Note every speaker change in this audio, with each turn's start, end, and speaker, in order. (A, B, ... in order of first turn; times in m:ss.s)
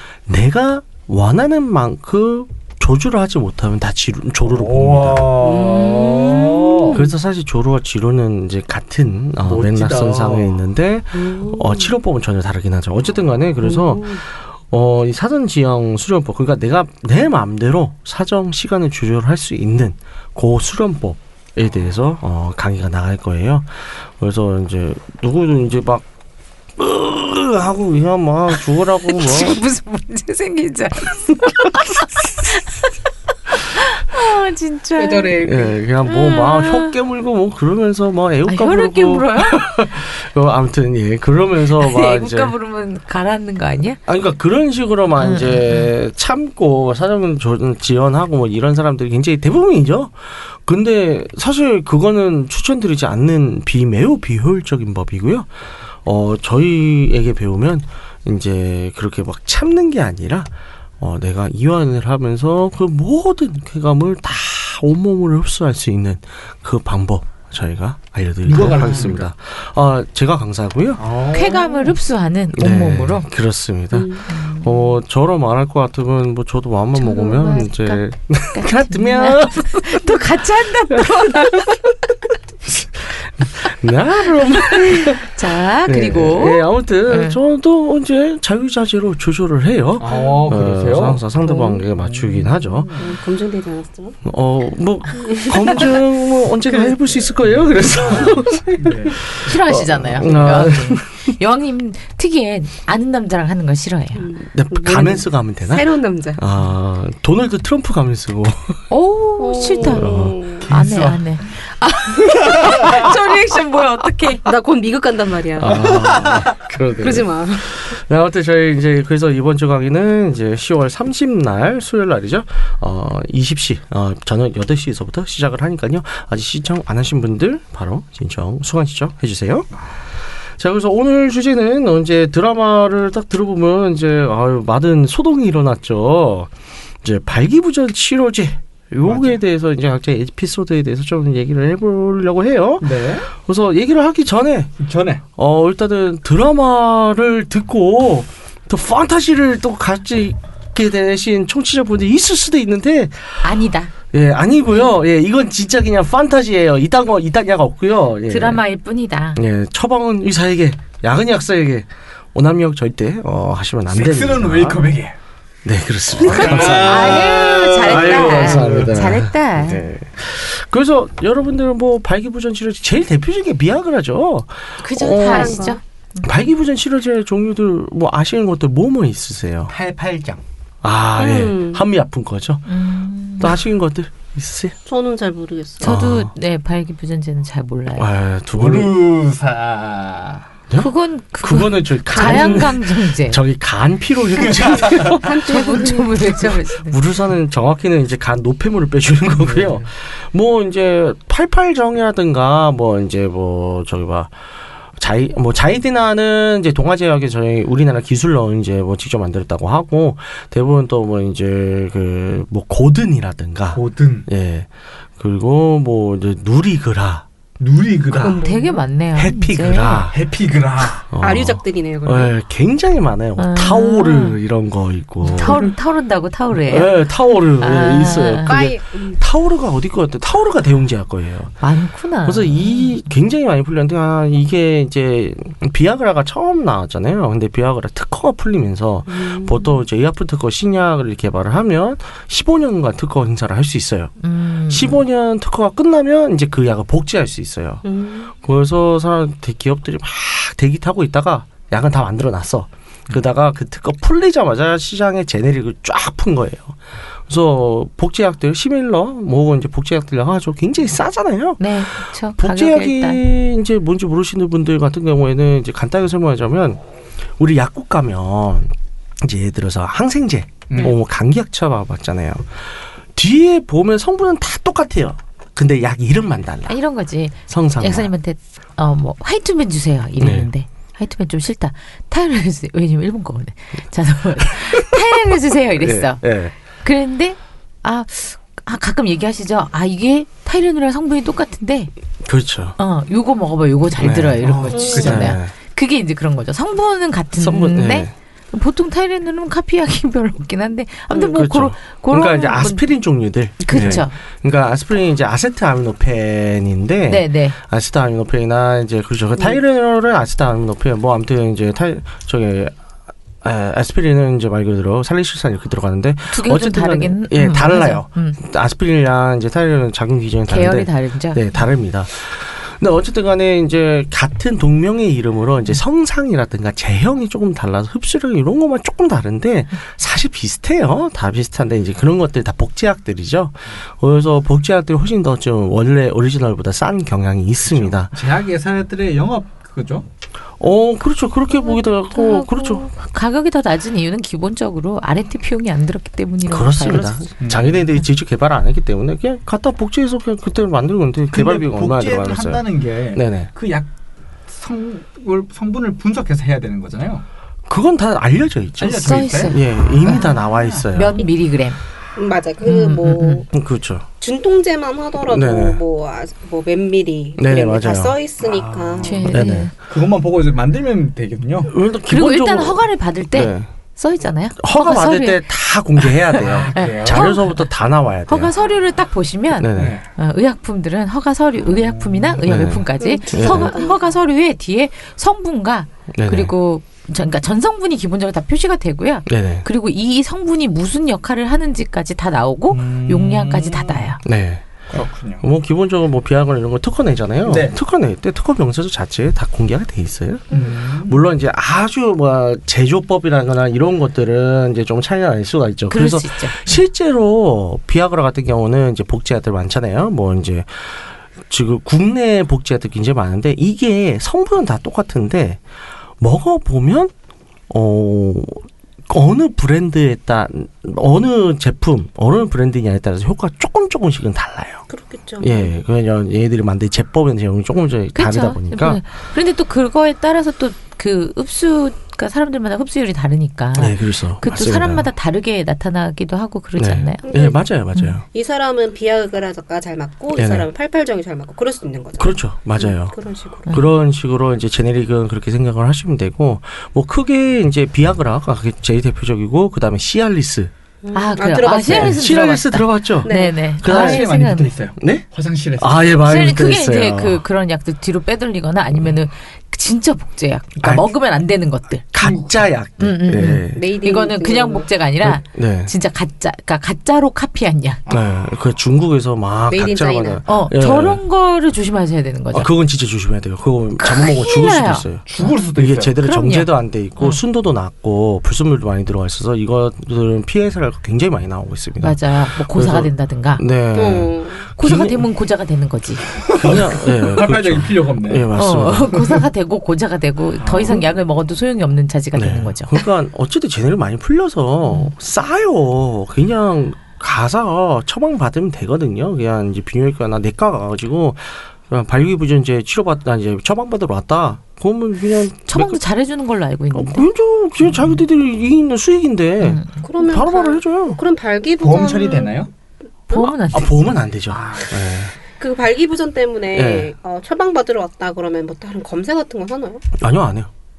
0:00.3-0:05.4 A
0:04.4-0:07.0 B
0:05.4-0:07.1 C
0:06.9-0:26.1 A
0:09.4-0:10.6 B
0:11.1-0:11.9 C
0:13.6-0:14.2 C
0:26.8-0:29.6 A
0:29.0-0:32.8 D
0:33.7-0:35.5 D
0:35.0-0:35.8 C
0:35.4-0:42.5 A
0:36.0-0:37.0 D
0:38.5-0:39.7 D
0:41.7-0:44.0 D
0:44.1-0:55.5 A
0:45.2-0:45.9 D
0:56.0-1:11.1 A
1:08.4-1:09.3 B
1:11.0-1:11.9 B
1:11.3-1:13.3 D
1:12.5-1:20.2 A
1:13.9-1:14.3 C
1:14.3-1:15.0 D
1:17.0-1:18.0 D
1:18.5-1:21.7 D
1:20.9-1:21.3 A
1:22.7-1:25.3 A
1:24.7-1:27.4 D
1:25.8-1:32.9 A
1:30.0-1:31.2 B
1:30.1-1:30.5 C
1:31.4-1:31.8 C
1:32.0-1:33.1 B
1:33.0-1:34.2 C
1:34.2-1:41.4 A
1:35.2-1:36.0 C
1:36.7-1:37.0 C
1:37.5-1:39.2 B
1:39.4-1:44.3 D
1:44.2-1:46.4 C
1:44.5-1:48.8 A
1:48.9-1:54.5 D
1:49.4-1:50.7 C
1:49.8-1:50.4 A
1:50.6-1:51.2 B
1:52.7-1:53.1 B
1:54.4-1:56.0 C
1:55.6-2:09.7 A
1:55.7-1:56.5 B
1:57.0-1:57.8 C
2:10.6-2:16.5 A
2:17.0-2:24.7 A
2:19.0-2:19.4 B
2:22.8-2:23.3 B
2:24.8-2:25.2 B
2:25.4-2:33.6 A
2:33.4-2:33.9 D
2:34.1-2:38.6 A
2:38.3-2:39.4 D
2:39.4-2:44.8 A
2:43.9-2:45.2 B
2:45.6-2:55.7 A
2:46.1-2:49.0 B
2:46.2-2:49.9 D
2:54.8-2:55.8 D
2:55.1-2:55.8 C
2:56.2-2:59.7 A
2:59.7-3:00.4 B
3:00.8-3:02.7 A
3:01.2-3:01.8 C
3:02.7-3:03.6 D
3:03.4-3:04.8 A
3:04.9-3:06.0 C
3:05.8-3:08.1 D
3:05.8-3:06.3 A
3:07.9-3:09.0 A
3:08.5-3:10.5 B
3:10.7-3:15.5 A
3:10.8-3:13.4 D
3:12.1-3:12.6 C
3:14.4-3:15.2 B
3:14.5-3:16.4 C
3:15.2-3:17.0 D
3:16.4-3:24.3 A
3:19.4-3:19.9 B
3:25.0-3:37.2 A
3:33.7-3:34.3 B
3:37.6-3:38.5 B
3:38.1-3:38.8 C
3:38.4-3:40.1 D
3:39.2-3:40.2 A
3:40.1-3:41.1 B
3:41.1-3:45.7 A
3:41.2-3:42.3 C
3:43.4-3:44.4 D
3:45.2-3:47.0 D
3:46.6-3:51.6 A
3:47.6-3:48.6 D
3:48.4-3:49.2 C
3:51.6-3:53.0 D
3:52.2-4:04.1 A
3:59.1-3:59.8 C
4:04.2-4:05.0 D
4:04.7-4:07.8 A
4:07.8-4:08.3 C
4:08.4-4:21.6 A
4:21.6-4:23.2 D
4:22.4-4:26.8 A
4:27.4-4:36.8 A
4:30.7-4:31.0 B
4:36.7-4:46.2 D
4:37.5-4:38.1 A
4:40.2-4:40.5 A
4:44.4-4:45.0 A
4:45.8-4:46.5 A
4:46.8-4:51.9 D
4:52.2-4:52.8 A
4:52.8-5:02.9 D
4:54.0-4:55.5 A
4:54.4-4:55.4 B
4:54.7-4:55.2 C
4:57.4-4:58.1 A
5:01.1-5:12.7 A
5:03.6-5:04.2 D
5:07.1-5:07.6 D
5:13.4-5:38.1 A
5:16.3-5:18.4 D
5:20.5-5:21.4 D
5:37.6-5:40.1 B
5:40.6-5:42.9 A
5:41.7-5:47.2 D
5:46.5-5:53.5 A
5:47.4-5:47.9 B
5:51.3-5:53.9 B
5:54.5-5:57.2 B
5:57.7-6:01.2 A
5:58.8-6:00.8 B
5:59.0-6:00.4 D
6:00.9-6:01.8 D
6:02.2-6:03.5 C
6:02.6-6:03.4 D
6:03.5-6:04.1 A
6:04.2-6:09.4 C
6:05.3-6:05.8 A
6:07.4-6:08.2 A
6:08.4-6:11.8 B
6:09.0-6:09.7 D
6:09.3-6:09.7 A
6:11.7-6:13.7 A
6:12.1-6:15.5 D
6:14.6-6:18.5 A
6:16.0-6:17.7 D
6:16.4-6:17.4 B
6:18.3-6:34.2 D
6:19.6-6:20.0 A
6:19.7-6:20.1 B
6:21.7-6:22.4 B
6:22.4-6:23.8 A
6:23.0-6:24.1 C
6:26.1-6:26.5 A
6:29.3-6:29.7 A
6:32.7-6:34.1 B
6:34.2-6:55.6 A
6:34.9-6:35.5 B
6:37.4-6:37.8 B
6:40.5-6:41.2 B
6:45.9-6:46.8 D
6:56.2-6:57.1 A
6:57.7-7:04.8 A
7:04.9-7:05.7 C
7:05.4-7:09.0 A
7:08.2-7:17.3 D
7:13.8-7:15.1 A
7:16.8-7:18.2 A
7:17.2-7:17.6 C
7:18.3-7:23.7 C
7:20.4-7:20.7 A
7:22.2-7:23.2 A
7:23.7-7:30.7 A
7:31.0-7:32.2 C
7:31.1-7:34.7 D
7:31.9-7:34.3 A
7:33.2-7:33.6 C
7:33.8-7:36.2 B
7:35.0-7:35.2 A
7:35.8-7:37.4 A
7:36.2-7:42.4 D
7:40.8-7:41.1 A
7:42.1-7:43.9 A
7:43.0-7:48.0 D
7:43.7-7:44.9 C
7:45.2-7:45.9 A
7:48.1-7:48.4 B
7:48.1-7:51.2 A
7:49.7-7:50.4 C
7:50.5-7:52.7 D
7:52.5-8:05.2 A
7:54.0-7:55.5 D
7:55.3-7:56.2 B
7:56.2-7:57.4 D
8:02.0-8:03.6 D
8:03.9-8:04.7 C
8:04.8-8:06.3 D
8:06.4-8:08.5 B
8:06.5-8:09.2 A
8:08.5-8:12.9 D
8:09.2-8:09.4 B
8:10.6-8:11.0 B
8:12.3-8:26.0 A
8:25.7-8:27.3 D
8:26.9-8:31.2 A
8:27.8-8:28.2 D
8:29.6-8:30.0 D
8:30.0-8:32.6 C
8:31.8-8:32.7 B
8:33.3-8:34.1 D
8:33.4-8:35.3 A
8:34.5-8:35.0 B
8:35.6-8:40.0 C
8:36.7-8:37.1 A
8:40.2-8:40.7 A